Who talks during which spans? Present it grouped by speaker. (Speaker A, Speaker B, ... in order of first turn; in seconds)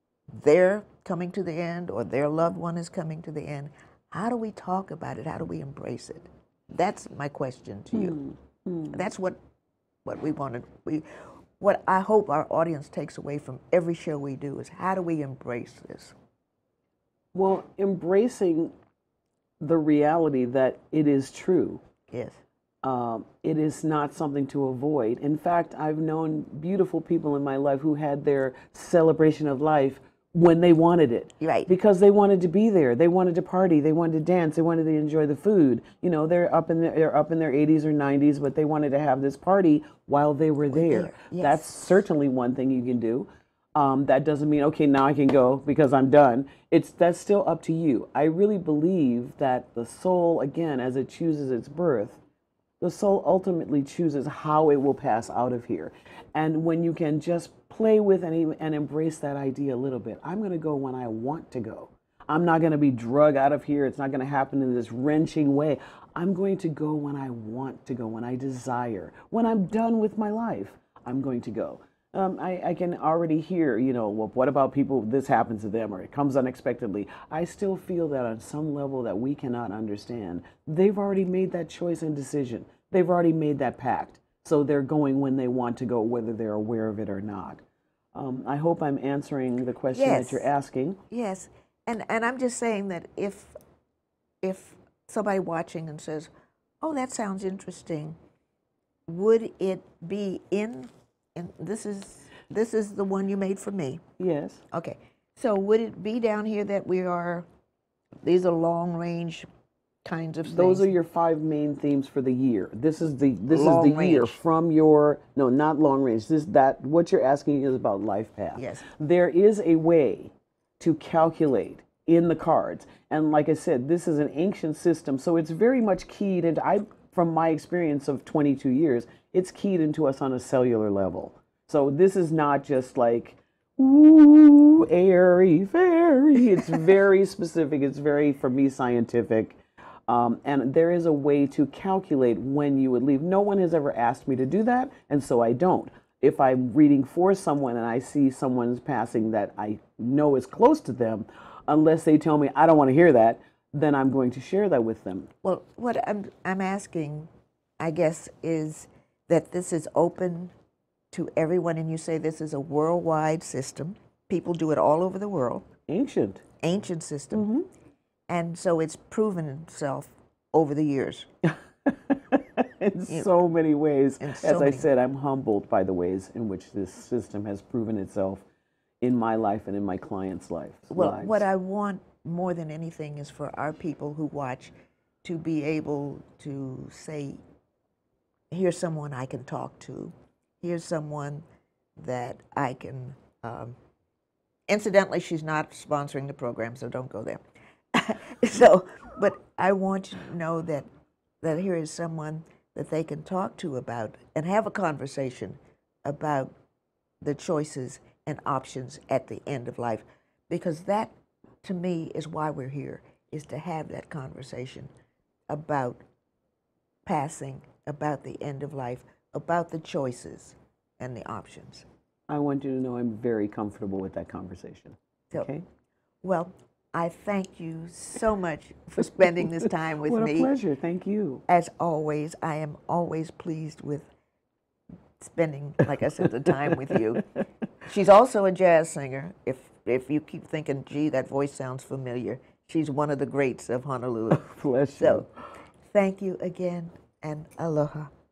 Speaker A: 0.3-8.2, 8.9-9.4, 10.0-11.1, 11.6-16.1, 22.1-22.4, 31.4-31.7, 40.7-41.9, 89.9-90.5, 91.1-93.5, 94.4-98.2, 99.1-104.0, 104.7-107.5, 108.2-109.5, 110.0-110.9, 113.5-114.4, 118.5-118.8, 155.4-160.5, 161.1-165.7, 166.6-167.5, 168.3-171.3, 174.2-174.9, 180.9-184.7, 185.2-187.4, 188.5-191.4, 192.0-193.8, 194.7-197.4, 197.9-200.9, 201.4-206.5, 207.2-214.9, 215.5-216.0, 217.1-221.9, 226.2-230.5, 231.5-234.1, 235.2-237.2, 237.8-245.2, 245.9-248.1
Speaker B: 7.9-9.0, 17.3-18.7, 19.6-21.8, 22.8-52.2, 52.8-87.6, 88.1-91.0, 104.2-104.6, 110.5-155.3, 165.9-166.4, 167.3-167.7, 171.4-178.4, 179.0-181.5, 222.3-225.6, 230.0-231.4, 244.3-245.3